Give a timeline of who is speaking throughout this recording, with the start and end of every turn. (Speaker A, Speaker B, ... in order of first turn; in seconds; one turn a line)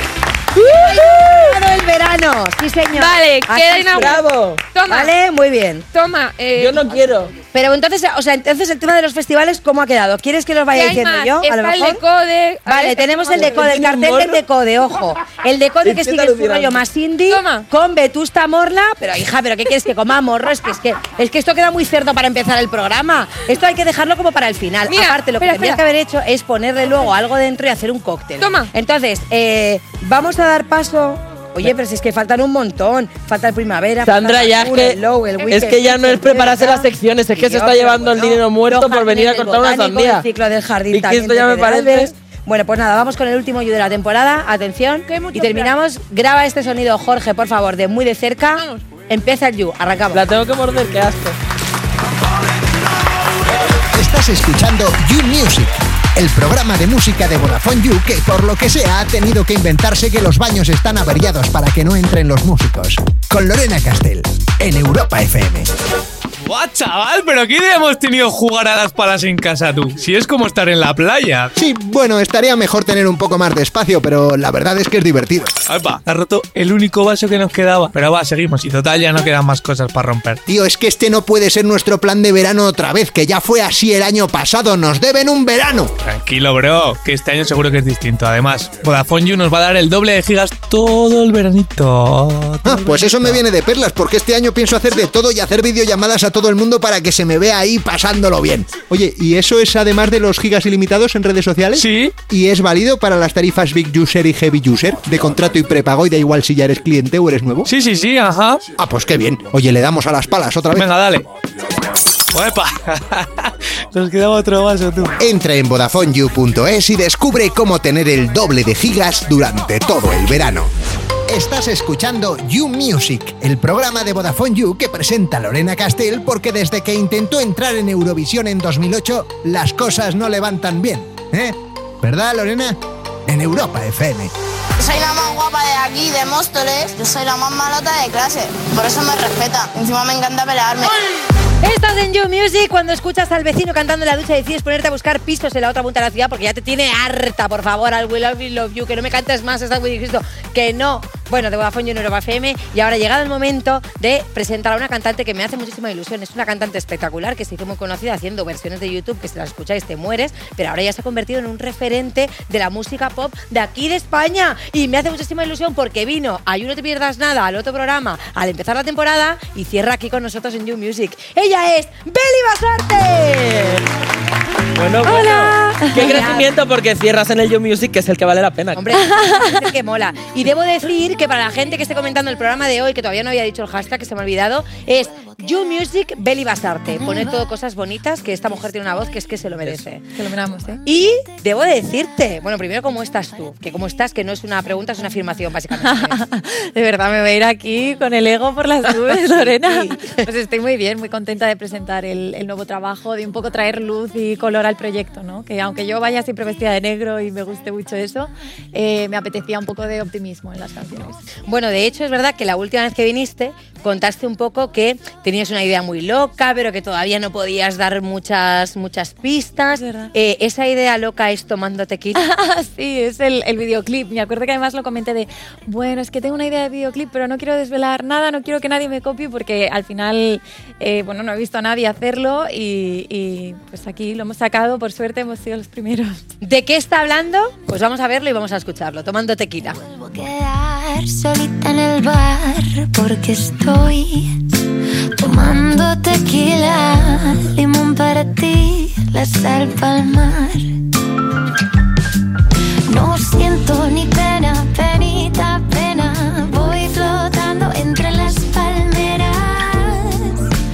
Speaker A: 0.6-4.1
Speaker B: 0.8-1.6
Speaker B: 2.9-5.1
Speaker C: 3.9-4.6
Speaker A: 4.9-5.9
Speaker B: 5.9-7.0
Speaker C: 6.5-7.3
Speaker A: 7.5-12.0
Speaker B: 10.7-13.6
Speaker A: 12.7-50.2
Speaker C: 13.3-14.4
Speaker C: 15.8-16.8
Speaker B: 17.3-17.7
Speaker B: 24.9-25.8
Speaker B: 28.4-28.7
Speaker C: 34.0-40.2
Speaker C: 40.9-42.1
Speaker B: 45.0-45.8
Speaker B: 48.5-48.9
Speaker C: 50.1-51.4
Speaker D: 53.9-65.7
Speaker E: 66.4-71.5
Speaker D: 71.5-75.6
Speaker E: 75.7-80.4
Speaker D: 80.5-85.9
Speaker E: 86.0-93.4
Speaker D: 92.6-107.7
Speaker E: 101.7-102.2
Speaker E: 107.7-108.6
Speaker D: 108.8-110.9
Speaker E: 110.7-111.2
Speaker E: 112.3-115.2
Speaker D: 115.2-120.7
Speaker D: 121.3-134.3
Speaker F: 134.8-140.9
Speaker A: 141.6-173.8
Speaker C: 174.8-178.9
Speaker A: 175.0-176.5
Speaker A: 178.7-190.0
Speaker G: 179.0-179.5
Speaker G: 190.1-190.8
Speaker A: 190.8-196.2
Speaker G: 195.8-211.2
Speaker A: 199.6-200.2
Speaker A: 211.5-222.2
Speaker G: 219.7-220.1
Speaker G: 222.2-236.2
Speaker A: 236.4-239.8
Speaker H: 239.8-244.4
Speaker H: 245.2-250.7
Speaker H: 252.9-260.5